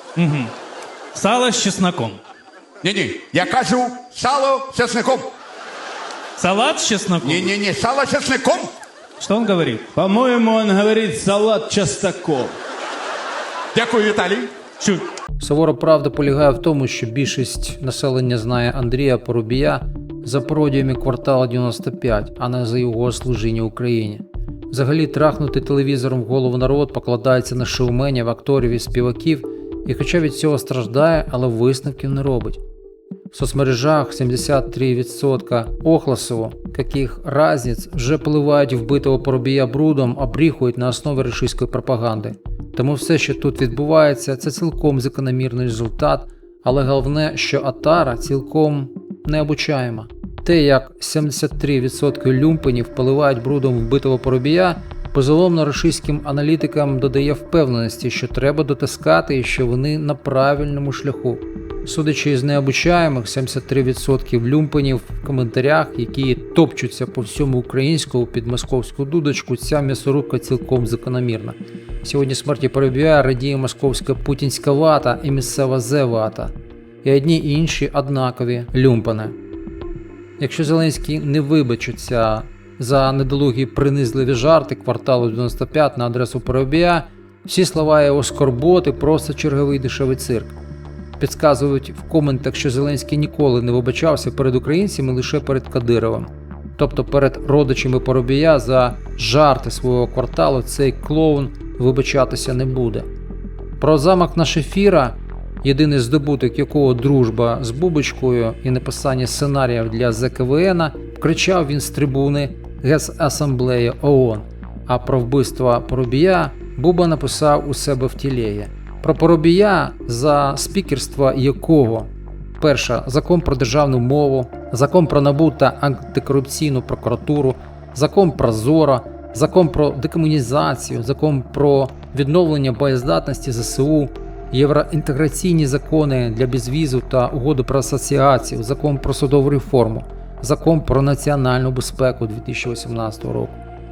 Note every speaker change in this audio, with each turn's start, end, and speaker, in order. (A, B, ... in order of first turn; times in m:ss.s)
0:00.2-0:00.5 A
0:01.1-0:02.2 A
0:02.8-0:05.3 B
0:06.4-0:07.5 A
0:07.2-0:08.7 B
0:09.2-0:09.9 A
0:09.9-0:12.6 C
0:13.7-0:14.5 B
0:15.4-0:32.6 D
0:33.3-1:19.4 D
1:20.4-1:30.5 D
1:31.2-1:43.1 D
1:43.8-2:23.6 D